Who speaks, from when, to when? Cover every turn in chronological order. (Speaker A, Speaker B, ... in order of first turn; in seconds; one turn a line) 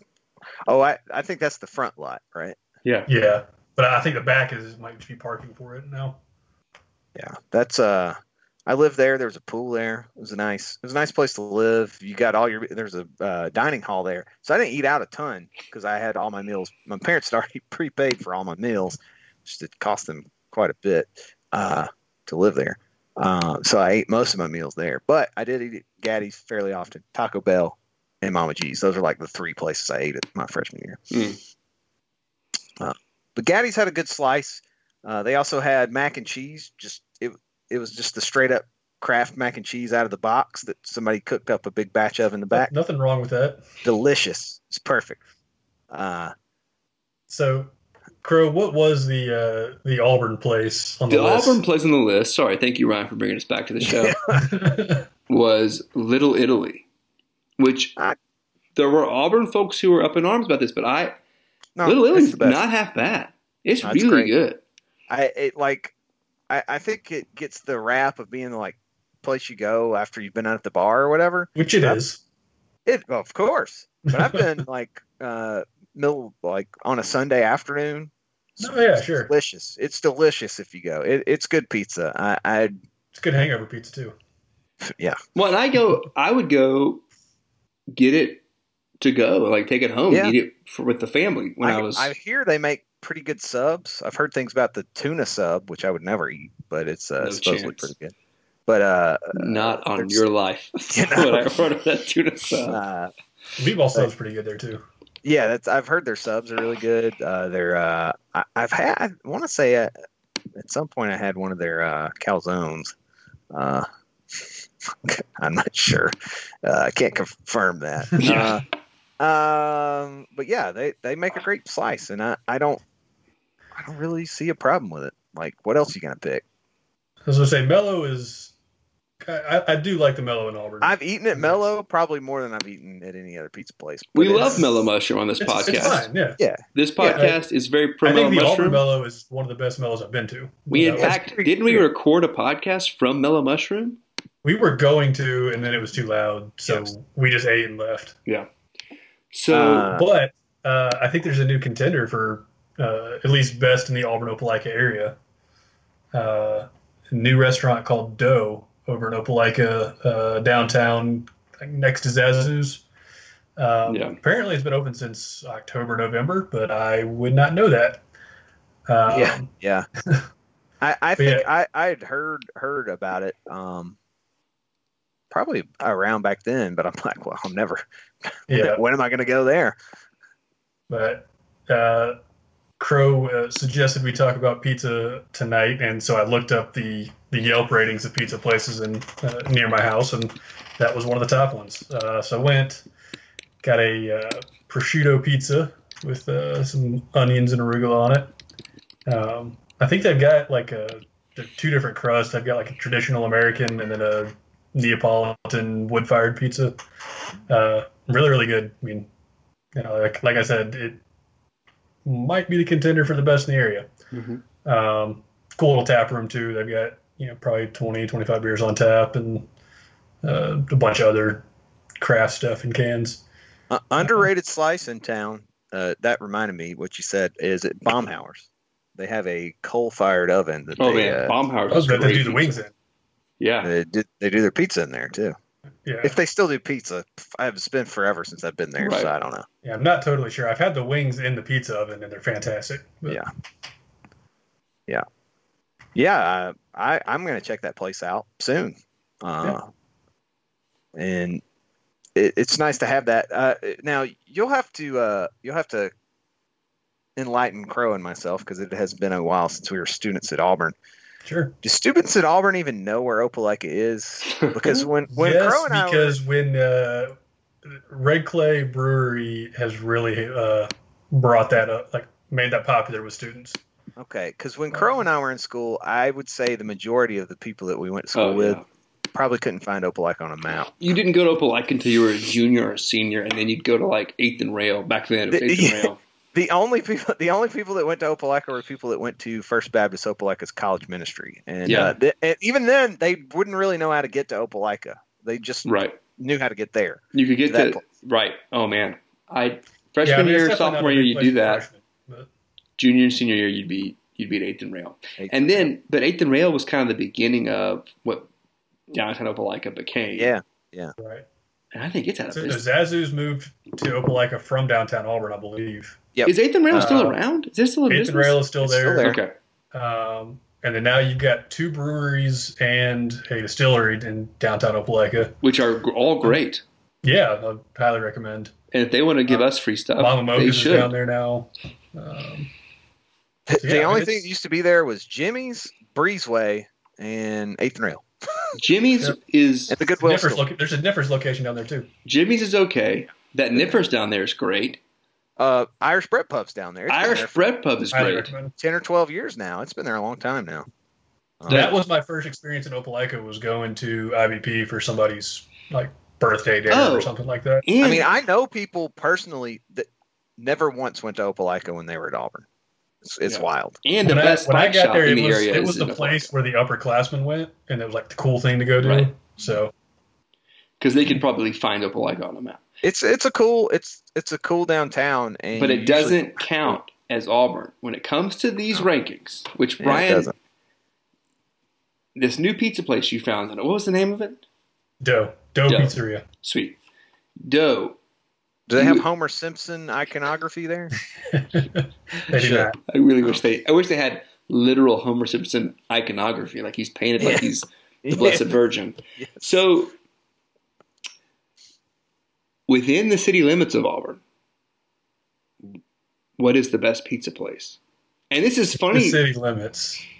Speaker A: 0.7-2.6
Speaker B: 3.1-6.2
Speaker A: 7.1-31.0
Speaker C: 31.1-31.4
Speaker A: 32.8-42.7
Speaker B: 42.5-43.6
Speaker A: 43.8-45.2
Speaker A: 45.9-46.3
Speaker B: 47.3-51.6
Speaker C: 51.1-54.2
Speaker A: 53.8-54.4
Speaker B: 54.4-55.0
Speaker C: 55.3-56.8
Speaker C: 57.6-58.0
Speaker C: 58.8-61.2
Speaker A: 61.8-62.6
Speaker C: 61.8-64.6
Speaker A: 63.8-64.3
Speaker A: 65.1-65.9
Speaker A: 66.5-72.0
Speaker B: 71.5-72.2
Speaker A: 72.8-82.7
Speaker B: 78.6-79.3
Speaker B: 83.1-84.1
Speaker A: 84.8-85.2
Speaker C: 85.3-87.0
Speaker C: 87.9-88.4
Speaker C: 89.0-92.1
Speaker A: 91.6-98.1
Speaker C: 97.2-97.9
Speaker A: 98.7-100.2
Speaker C: 99.3-102.8
Speaker A: 100.9-101.6
Speaker A: 102.7-103.1
Speaker B: 103.6-104.8
Speaker A: 105.2-109.9
Speaker A: 110.5-112.9
Speaker A: 113.5-118.6
Speaker B: 118.2-118.5
Speaker C: 118.2-118.6
Speaker A: 119.2-122.8
Speaker A: 123.7-126.4
Speaker B: 127.2-128.5
Speaker B: 129.2-131.6
Speaker A: 130.8-134.7
Speaker C: 134.1-136.1
Speaker B: 135.4-136.4
Speaker A: 136.4-137.2
Speaker C: 136.7-138.8
Speaker B: 137.1-137.4
Speaker B: 138.0-141.1
Speaker C: 140.7-144.0
Speaker A: 140.9-141.8
Speaker B: 144.4-148.2
Speaker C: 149.3-149.9
Speaker A: 149.5-150.1
Speaker B: 149.9-155.2
Speaker B: 156.1-162.8
Speaker B: 163.6-168.0
Speaker C: 163.9-164.2
Speaker B: 168.9-169.5
Speaker A: 169.1-169.9
Speaker A: 170.8-174.0
Speaker B: 171.2-171.5
Speaker A: 175.3-179.8
Speaker B: 178.5-178.8
Speaker B: 180.9-182.2
Speaker B: 182.8-192.8
Speaker B: 193.6-198.3
Speaker B: 199.1-206.8
Speaker B: 207.5-209.1
Speaker B: 209.7-211.0
Speaker B: 212.0-213.9
Speaker C: 214.1-214.4
Speaker B: 214.6-219.5
Speaker B: 220.2-221.4
Speaker B: 222.0-223.2
Speaker A: 223.7-231.3
Speaker B: 224.0-224.3
Speaker C: 230.8-232.6
Speaker B: 231.7-232.7
Speaker C: 233.4-233.7
Speaker A: 233.6-235.3
Speaker B: 235.8-236.2
Speaker A: 236.0-239.5
Speaker C: 238.8-239.1
Speaker B: 239.6-243.2
Speaker A: 245.9-249.7
Speaker A: 250.9-251.4
Speaker A: 252.2-255.9
Speaker A: 257.1-260.7
Speaker B: 261.2-261.6
Speaker A: 261.6-266.2
Speaker C: 264.4-264.8
Speaker B: 265.1-267.1
Speaker B: 267.7-273.6
Speaker A: 274.0-278.6
Speaker B: 274.7-275.0
Speaker C: 278.1-278.6
Speaker A: 279.1-280.7
Speaker C: 280.8-286.0
Speaker A: 285.3-295.6
Speaker C: 291.6-291.9
Speaker C: 295.6-296.0
Speaker A: 296.2-297.8
Speaker C: 297.1-301.6
Speaker B: 300.0-302.3
Speaker C: 302.8-308.3
Speaker A: 305.2-305.7
Speaker C: 308.9-310.3
Speaker A: 310.1-310.9
Speaker B: 311.0-311.2
Speaker C: 311.7-312.6
Speaker B: 312.3-316.0
Speaker C: 316.2-319.3
Speaker B: 316.7-317.2
Speaker B: 317.9-319.1
Speaker A: 318.6-319.2
Speaker B: 319.7-325.4
Speaker C: 325.4-326.6
Speaker B: 327.0-328.5
Speaker C: 328.7-330.9
Speaker B: 330.0-332.5
Speaker A: 333.5-338.4
Speaker B: 333.6-334.3
Speaker C: 338.6-339.8
Speaker A: 339.7-340.4
Speaker B: 340.0-341.9
Speaker C: 342.1-344.8
Speaker A: 345.4-347.4
Speaker C: 346.9-348.3
Speaker B: 347.9-348.5
Speaker A: 348.6-350.7
Speaker A: 351.4-351.7
Speaker C: 351.5-351.7
Speaker B: 351.5-357.6
Speaker C: 356.7-357.1
Speaker C: 357.6-358.1
Speaker A: 357.8-362.4
Speaker A: 363.0-363.8
Speaker C: 363.2-366.3
Speaker B: 364.0-369.7
Speaker C: 368.8-369.1
Speaker C: 370.8-372.6
Speaker A: 372.8-376.8
Speaker C: 375.6-380.3
Speaker A: 379.8-380.3
Speaker C: 382.1-384.4
Speaker B: 385.0-386.2
Speaker C: 385.7-386.8
Speaker C: 387.4-388.0
Speaker A: 388.7-390.9
Speaker C: 388.8-389.0
Speaker B: 391.3-392.8
Speaker C: 392.3-399.9
Speaker A: 397.2-397.4
Speaker A: 398.1-398.6
Speaker C: 402.7-404.2
Speaker C: 406.4-407.8
Speaker C: 408.3-409.2
Speaker B: 408.7-410.0